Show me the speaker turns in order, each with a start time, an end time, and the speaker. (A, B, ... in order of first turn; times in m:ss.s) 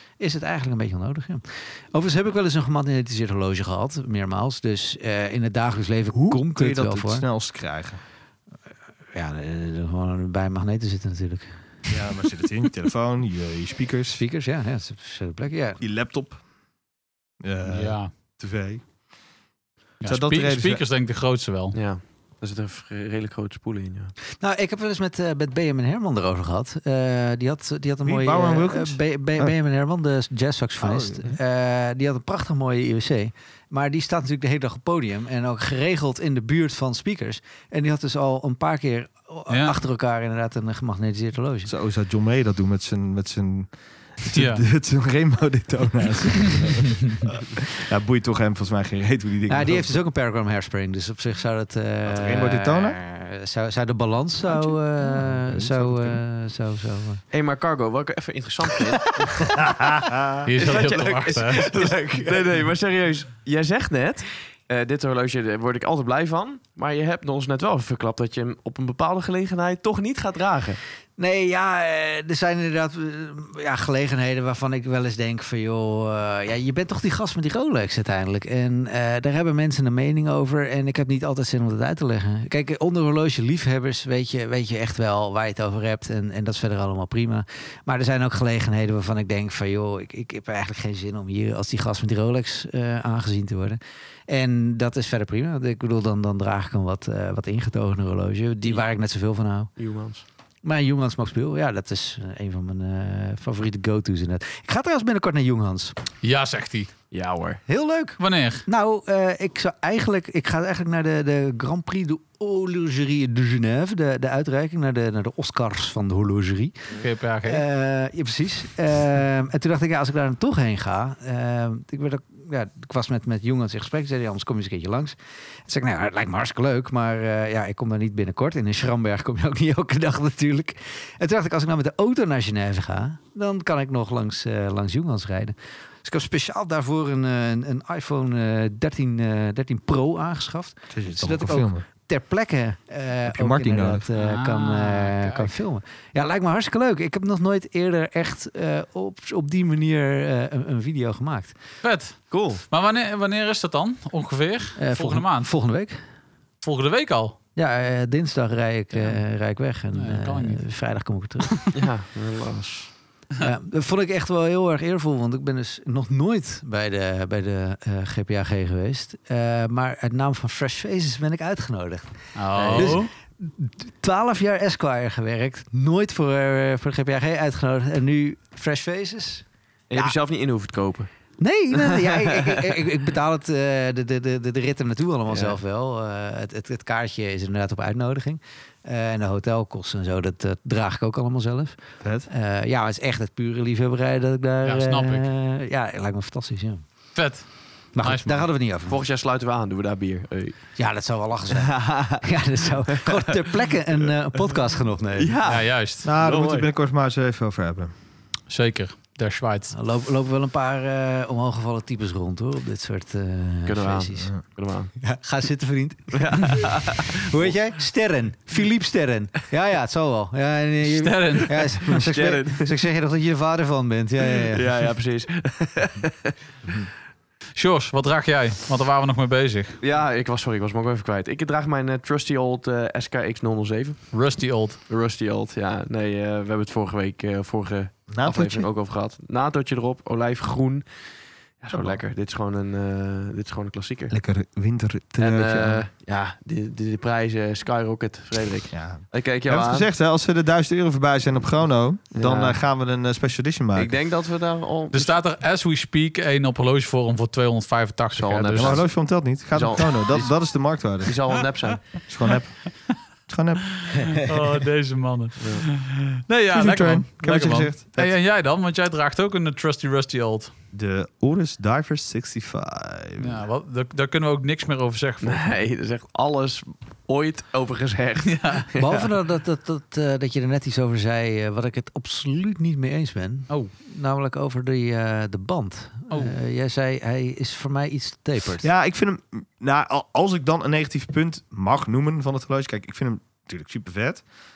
0:00.2-0:07.2 A
0:06.1-0:08.0 B
0:09.1-0:11.5 A
0:11.9-0:14.2 B
0:14.1-0:15.8 A
0:15.8-0:16.4 B
0:17.4-0:18.8 B
0:17.6-0:18.1 C
0:20.0-0:21.8 C
0:20.0-0:20.8 B
0:21.7-0:24.1 D
0:24.4-0:41.7 A
0:28.0-0:29.5 B
0:30.8-0:31.3 B
0:39.5-0:39.8 C
0:41.6-0:50.0 B
0:44.3-0:44.6 C
0:49.5-0:57.2 A
0:52.0-0:53.0 B
0:54.5-0:56.2 B
0:57.3-0:59.6 D
0:59.6-1:00.4 B
1:00.4-1:01.7 C
1:00.6-1:10.8 D
1:01.7-1:02.4 A
1:11.2-1:39.7 A
1:39.8-1:40.2 D
1:40.6-1:45.9 A
1:46.2-1:46.9 C
1:47.1-1:47.6 D
1:47.7-1:56.9 A
1:48.2-1:48.6 C
1:57.0-1:57.6 C
1:57.4-2:31.5 A
2:20.9-2:21.8 B
2:23.3-2:24.0 B
2:24.2-2:25.5 C
2:31.8-2:35.5 C
2:32.3-2:32.6 D
2:34.8-2:36.0 A
2:36.6-2:37.4 C
2:37.6-2:41.7 A
2:38.9-2:39.2 C
2:39.9-2:40.6 C
2:41.7-2:42.9 D
2:43.4-2:52.1 A
2:52.4-2:53.1 C
2:52.5-2:53.0 D
2:52.7-3:00.1 A
2:59.9-3:01.1 D
3:01.4-3:11.7 A
3:01.7-3:02.7 D
3:05.3-3:05.6 D
3:12.0-3:12.3 B
3:12.3-3:16.8 A
3:14.6-3:15.2 C
3:17.1-3:18.5 C
3:17.9-3:19.0 A
3:18.9-3:20.6 D
3:20.8-3:25.4 A
3:21.5-3:22.2 D
3:25.2-3:26.7 D
3:25.4-3:26.0 C
3:26.0-3:27.9 B
3:28.5-3:29.7 C
3:29.7-3:34.4 A
3:33.6-3:34.9 D
3:35.0-3:44.7 A
3:36.1-3:37.5 D
3:40.8-3:41.8 C
3:41.9-3:42.7 D
3:44.5-3:46.3 D
3:47.6-3:49.8 C
3:49.8-3:54.1 D
3:54.1-3:54.8 C
3:54.9-4:00.8 D
3:58.1-3:58.7 B
4:01.6-4:04.1 D
4:01.7-4:02.0 B
4:04.1-4:05.8 B
4:05.2-4:09.9 D
4:08.7-4:13.9 B
4:12.1-4:12.6 D
4:13.7-4:15.1 D
4:14.9-4:18.8 C
4:18.1-4:20.3 D
4:18.5-4:21.2 B
4:21.0-4:22.0 D
4:22.0-4:22.8 B
4:23.3-4:23.9 B
4:23.8-4:30.5 C
4:25.4-4:25.6 D
4:26.5-4:28.1 B
4:30.7-4:33.4 B
4:33.2-4:35.5 C
4:35.2-4:39.1 D
4:38.2-4:38.7 C
4:38.8-4:48.7 A
4:48.6-4:54.2 B